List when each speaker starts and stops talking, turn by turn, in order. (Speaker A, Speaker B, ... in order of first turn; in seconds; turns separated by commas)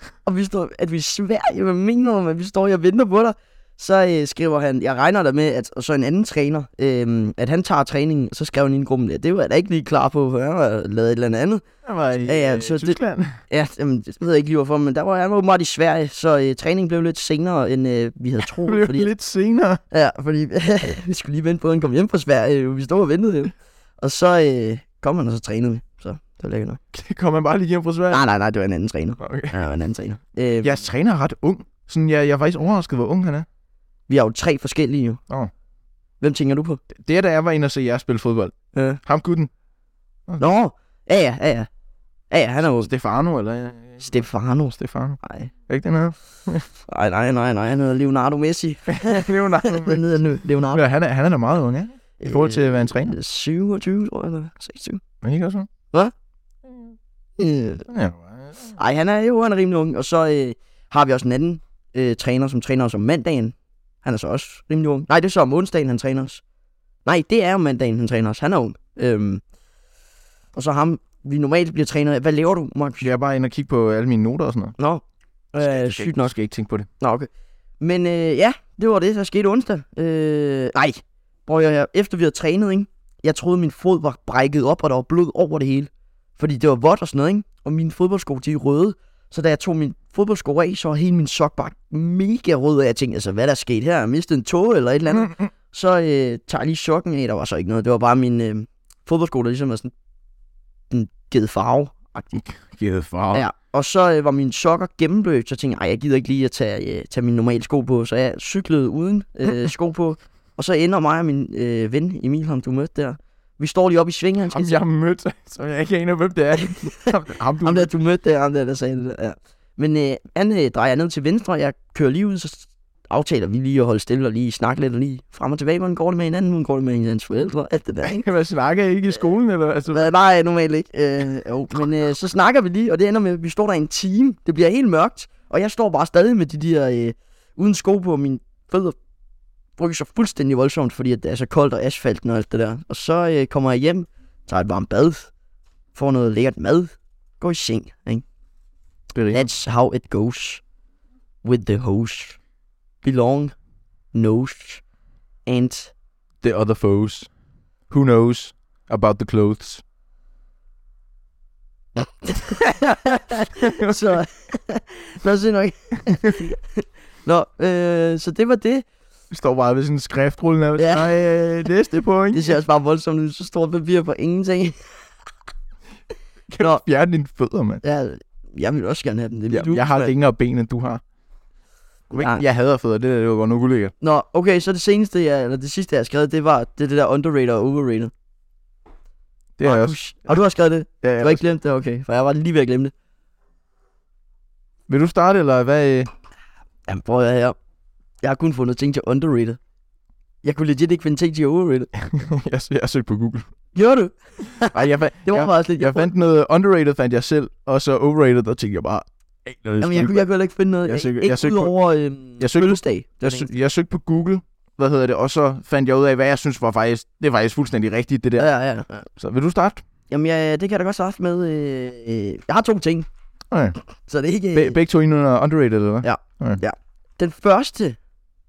Speaker A: 0.3-11.6, Speaker B: 11.8-13.4, Speaker A: 12.3-19.1, Speaker B: 18.5-19.8, Speaker A: 19.9-26.8, Speaker B: 26.9-28.2, Speaker A: 28.1-30.8, Speaker B: 29.2-29.6, Speaker B: 30.6-33.5, Speaker A: 34.1-35.2, Speaker A: 36.2-36.8, Speaker B: 37.0-39.5, Speaker A: 38.7-39.0, Speaker A: 40.4-41.7, Speaker A: 42.3-42.9, Speaker B: 42.6-44.1, Speaker A: 44.0-45.5, Speaker B: 44.8-46.7, Speaker A: 46.9-50.8, Speaker B: 48.9-50.0, Speaker B: 50.7-53.2, Speaker A: 52.2-55.0, Speaker B: 55.2-55.7, Speaker A: 57.4-57.9, Speaker B: 57.9-58.5, Speaker A: 58.8-66.4, Speaker A: 67.0-69.4, Speaker A: 70.5-73.1, Speaker B: 73.0-74.7, Speaker A: 74.8-76.3, Speaker B: 75.6-76.9, Speaker A: 77.0-77.3, Speaker A: 77.8-99.9, Speaker B: 95.1-95.5, Speaker A: 100.9-102.4, Speaker B: 102.3-103.4, Speaker A: 103.3-114.8, Speaker B: 114.5-117.9, Speaker A: 116.7-128.2, Speaker B: 128.0-130.0, Speaker A: 129.9-139.0, Speaker A: 139.8-145.3, Speaker A: 145.9-148.2, Speaker B: 149.1-149.5, Speaker A: 149.3-150.6, Speaker A: 151.4-152.4, Speaker A: 153.0-153.6, Speaker A: 154.1-154.8, Speaker A: 155.5-155.9, Speaker B: 156.4-157.3, Speaker B: 157.9-159.8, Speaker A: 162.0-168.8, Speaker B: 163.1-164.2, Speaker B: 166.1-166.4, Speaker B: 169.3-172.6, Speaker A: 170.8-171.2, Speaker A: 172.3-174.8, Speaker B: 176.5-177.8, Speaker A: 177.8-180.1, Speaker B: 179.5-181.0, Speaker A: 182.1-182.4, Speaker B: 182.1-183.9, Speaker A: 184.0-188.1, Speaker B: 189.6-190.4, Speaker A: 189.6-192.9, Speaker B: 191.0-191.4, Speaker B: 194.9-196.1, Speaker A: 196.9-197.6, Speaker A: 198.2-199.6, Speaker A: 200.4-201.9, Speaker B: 202.0-203.4, Speaker A: 203.8-206.1, Speaker B: 204.6-210.2, Speaker A: 209.8-213.5, Speaker B: 210.9-211.7, Speaker B: 212.4-218.5, Speaker A: 218.4-219.1, Speaker B: 219.2-219.8, Speaker A: 220.1-223.1, Speaker B: 223.5-223.8, Speaker A: 224.1-224.8, Speaker B: 224.5-226.6, Speaker A: 226.0-228.0